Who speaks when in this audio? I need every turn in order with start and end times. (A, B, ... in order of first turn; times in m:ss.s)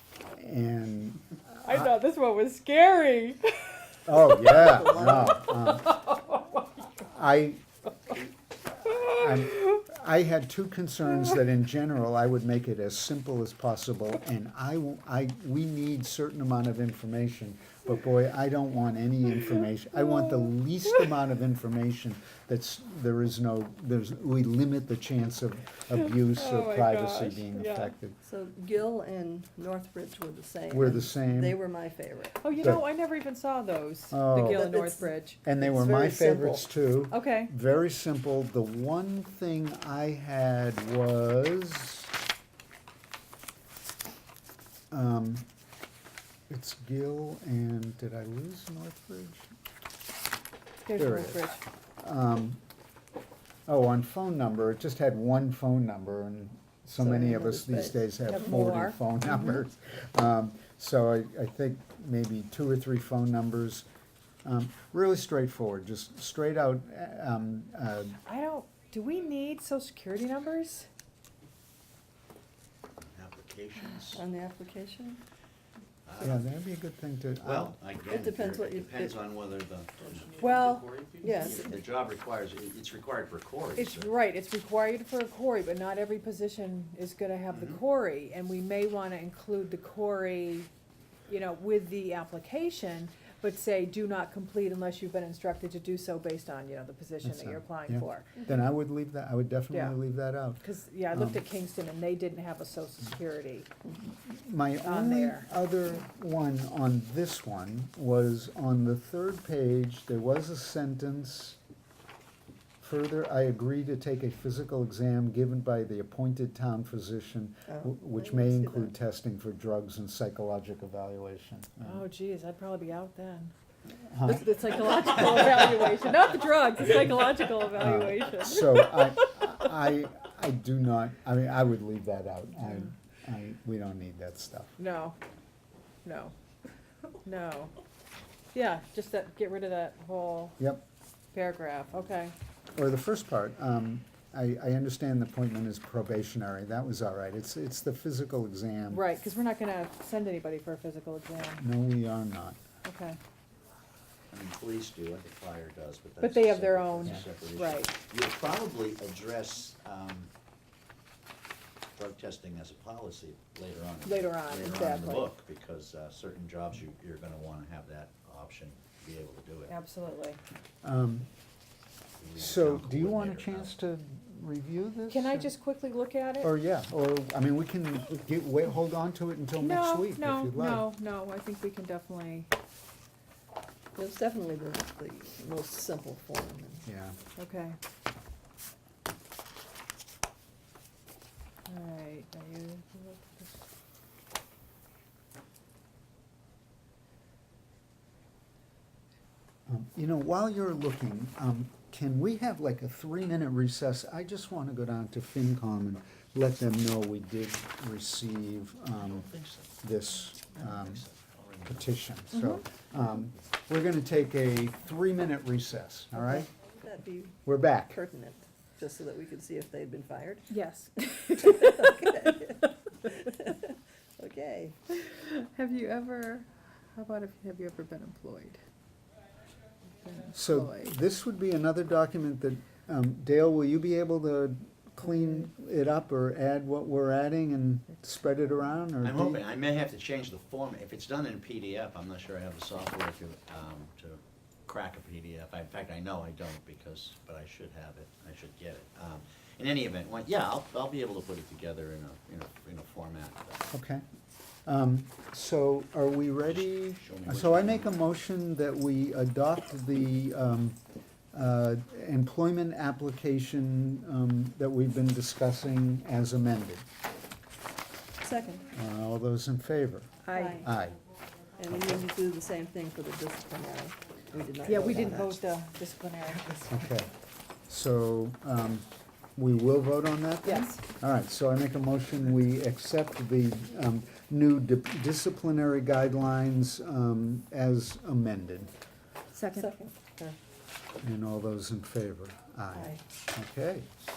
0:00.3-0:01.9 A
0:01.6-0:04.6 B
0:04.1-0:06.0 A
0:04.6-0:05.5 C
0:05.5-0:06.6 B
0:07.0-0:07.6 A
0:08.9-0:28.2 A
0:20.1-0:20.4 B
0:26.2-0:27.9 B
0:28.2-0:32.5 C
0:30.7-0:31.6 A
0:32.4-0:35.4 B
0:32.6-0:32.8 A
0:34.1-0:34.7 A
0:34.4-0:36.7 C
0:35.4-0:42.1 A
0:37.1-0:37.5 B
0:44.9-0:45.5 A
0:46.5-0:49.5 A
0:50.8-0:51.6 B
0:51.0-0:51.5 A
0:52.0-0:52.6 A
0:53.7-1:03.9 A
0:57.0-0:58.5 C
0:58.3-0:59.1 B
1:04.4-1:08.2 A
1:08.3-1:10.9 B
1:13.1-1:14.2 D
1:14.1-1:15.2 C
1:16.1-1:16.4 D
1:16.2-1:17.8 A
1:17.4-1:24.1 D
1:18.1-1:19.4 C
1:20.4-1:20.9 B
1:21.2-1:21.8 C
1:23.8-1:30.7 B
1:27.5-1:27.8 D
1:31.3-1:38.4 B
1:37.2-1:41.4 A
1:39.7-1:40.0 B
1:40.6-1:43.7 B
1:44.1-1:51.6 A
1:44.8-1:45.5 B
1:52.8-2:02.0 A
1:57.7-1:58.9 C
2:01.8-2:03.5 B
2:04.0-2:04.5 A
2:04.2-2:09.7 B
2:07.8-2:14.8 A
2:14.8-2:15.2 B
2:16.0-2:16.3 B
2:17.2-2:17.7 B
2:18.5-2:20.6 B
2:21.3-2:22.3 B
2:22.8-2:29.0 A
2:28.9-2:31.6 B
2:31.6-2:32.6 A
2:32.8-2:33.2 B
2:34.3-2:40.3 D
2:36.2-2:38.0 B
2:42.0-2:49.8 D
2:44.0-2:45.3 B
2:49.7-2:50.4 B
2:50.8-2:51.3 A
2:52.2-2:53.8 D
2:52.4-2:55.5 A
2:55.1-2:56.5 B
2:56.4-3:00.9 A
2:59.6-3:02.5 B
3:04.0-3:06.9 C
3:06.9-3:07.2 A
3:07.4-3:07.8 B
3:11.7-3:13.6 B
3:19.7-3:31.0 A
3:29.0-3:29.7 D
3:30.5-3:31.9 D
3:31.7-3:36.5 A
3:32.3-3:32.6 B
3:36.2-3:36.4 B
3:36.5-3:40.5 C
3:37.4-3:38.0 A
3:40.5-3:43.3 B
3:41.4-3:44.8 C
3:45.0-3:48.6 B
3:50.0-3:51.0 B
3:50.3-3:59.5 A
3:59.0-4:13.7 D
4:13.7-4:14.0 A
4:14.7-4:20.8 A
4:16.5-4:18.0 D
4:21.3-4:26.8 A
4:28.2-4:28.7 C
4:28.7-4:31.0 A
4:30.2-4:30.6 B
4:30.3-4:30.7 C
4:31.6-4:35.4 C
4:34.6-4:36.8 B
4:36.7-4:37.1 A
4:37.7-4:48.7 A
4:40.4-4:40.8 B
4:49.3-4:49.7 B
4:49.6-4:50.4 C
4:51.0-4:53.9 A
4:52.7-4:53.0 C